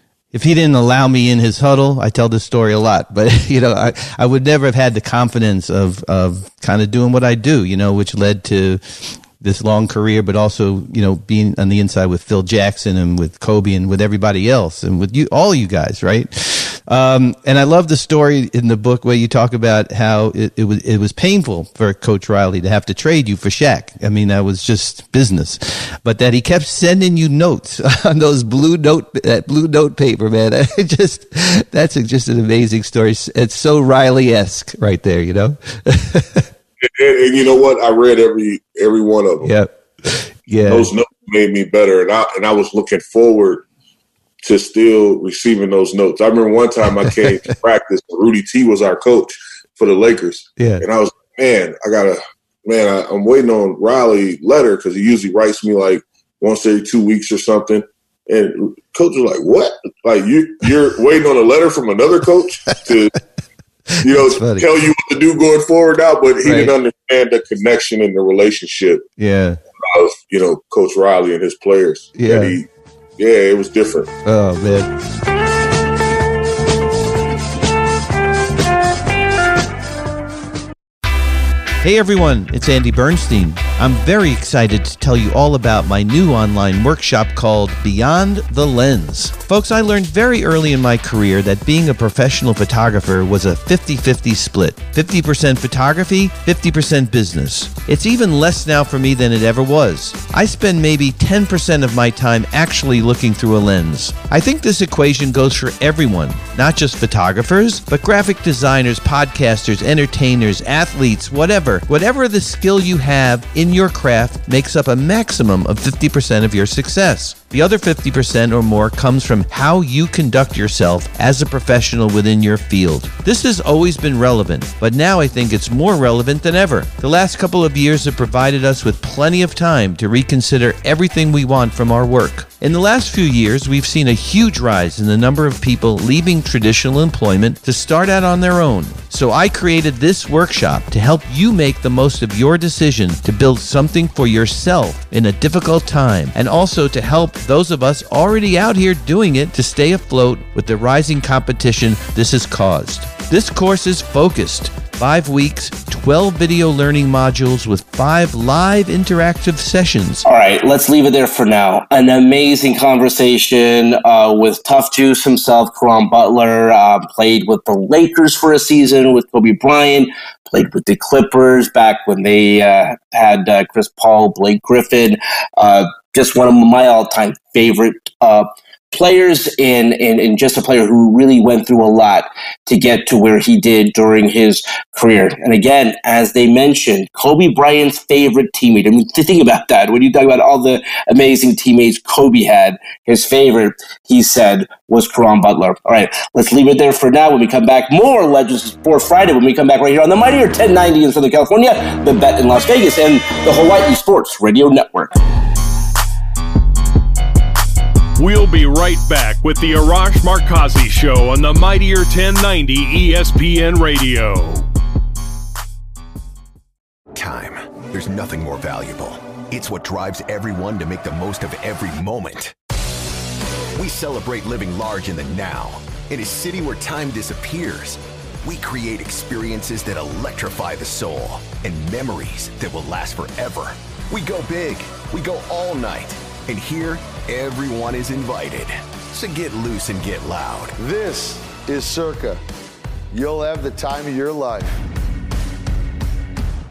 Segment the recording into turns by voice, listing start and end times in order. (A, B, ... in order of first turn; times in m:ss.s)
0:00.3-0:36.5 A
0:36.8-0:39.5 B
0:39.4-0:40.9 A
0:40.7-0:43.6 B
0:44.4-1:03.2 B
0:50.6-0:50.8 A
1:04.0-1:09.0 B
1:04.0-1:04.7 A
1:06.4-1:06.7 A
1:09.2-1:09.6 A
1:09.8-1:14.1 B
1:12.2-1:12.6 A
1:14.2-1:14.9 A
1:21.8-2:40.2 A
2:40.2-3:25.1 C
3:28.2-3:34.7 D
3:37.1-3:42.5 E
3:43.7-4:00.8 E
4:00.8-4:02.4 F
4:03.1-4:04.7 F